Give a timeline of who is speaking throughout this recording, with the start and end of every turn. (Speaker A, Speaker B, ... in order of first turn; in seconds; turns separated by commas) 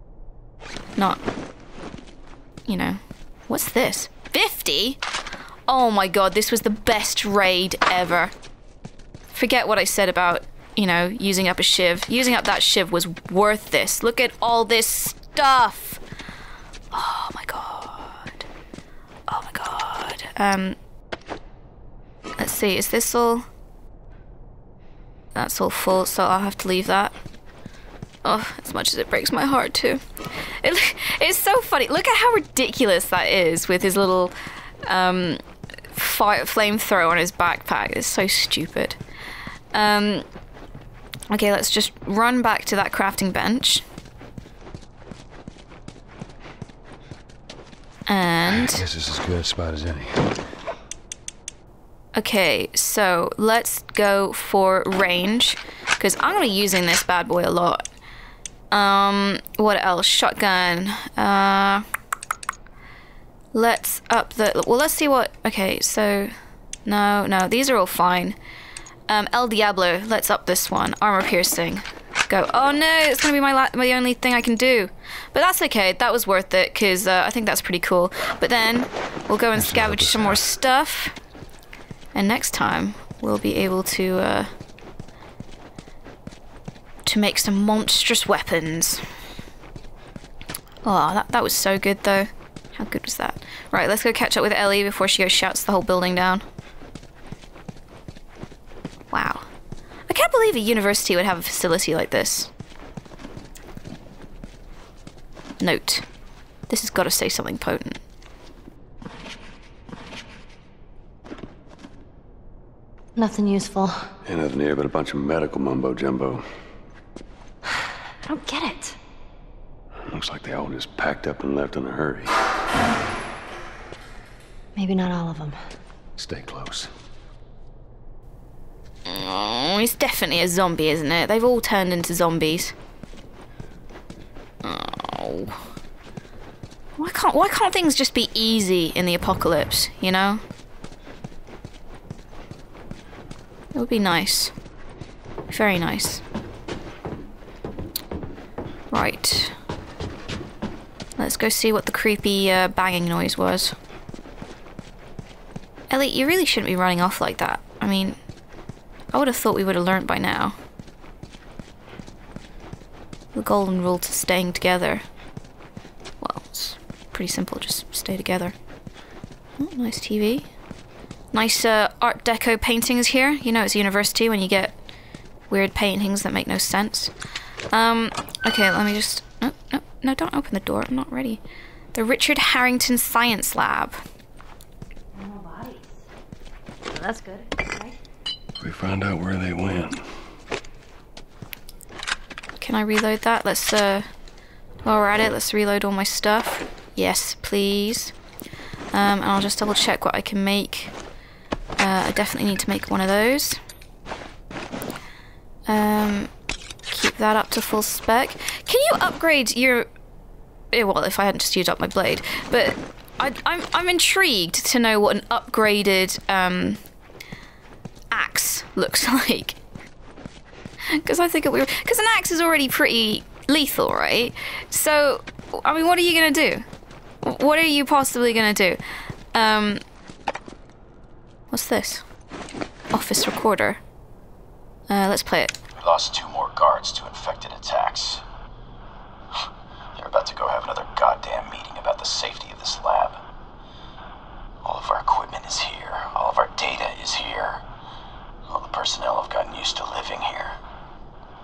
Speaker A: 2.7-5.0, Speaker A: 5.7-8.3, Speaker A: 9.3-16.0, Speaker A: 16.9-18.4, Speaker A: 19.3-20.8, Speaker A: 22.4-23.4, Speaker A: 25.3-27.1, Speaker A: 28.2-34.3, Speaker A: 34.9-39.0, Speaker A: 39.7-40.2, Speaker A: 41.3-43.8, Speaker A: 48.1-48.8, Speaker B: 48.4-50.4, Speaker A: 52.1-57.8, Speaker A: 58.7-61.9, Speaker A: 63.5-66.3, Speaker A: 66.8-68.4, Speaker A: 69.1-81.1, Speaker B: 79.6-80.4, Speaker A: 82.1-84.5, Speaker A: 87.0-89.0, Speaker A: 90.8-96.4, Speaker A: 99.1-99.5, Speaker A: 100.1-102.5, Speaker A: 105.6-106.0, Speaker A: 106.7-108.0, Speaker C: 113.2-114.1, Speaker B: 114.2-116.5, Speaker C: 118.2-119.0, Speaker B: 120.0-122.3, Speaker C: 124.7-125.6, Speaker B: 126.2-126.9, Speaker A: 129.1-132.7, Speaker A: 134.6-135.6, Speaker A: 137.0-140.4, Speaker A: 143.7-144.5, Speaker A: 145.5-146.2, Speaker A: 148.9-149.6, Speaker A: 151.2-153.8, Speaker A: 155.9-158.2, Speaker A: 159.1-160.6, Speaker A: 163.3-165.0, Speaker A: 166.2-168.5, Speaker A: 169.6-170.5, Speaker A: 171.3-174.7, Speaker A: 175.5-177.1, Speaker A: 177.7-181.4, Speaker A: 181.9-184.0, Speaker C: 185.1-186.0, Speaker C: 186.9-188.0, Speaker B: 188.6-190.1, Speaker A: 192.6-194.1, Speaker A: 194.8-198.1, Speaker A: 198.9-200.9, Speaker A: 201.8-203.6, Speaker A: 205.7-206.3, Speaker A: 206.9-209.9, Speaker A: 210.7-216.8, Speaker A: 218.1-219.6, Speaker A: 220.9-226.6, Speaker A: 227.2-229.8, Speaker A: 231.5-232.0, Speaker A: 232.9-233.8, Speaker A: 234.9-235.5, Speaker D: 235.8-238.2, Speaker D: 239.9-243.2, Speaker D: 244.6-247.6, Speaker D: 248.5-250.6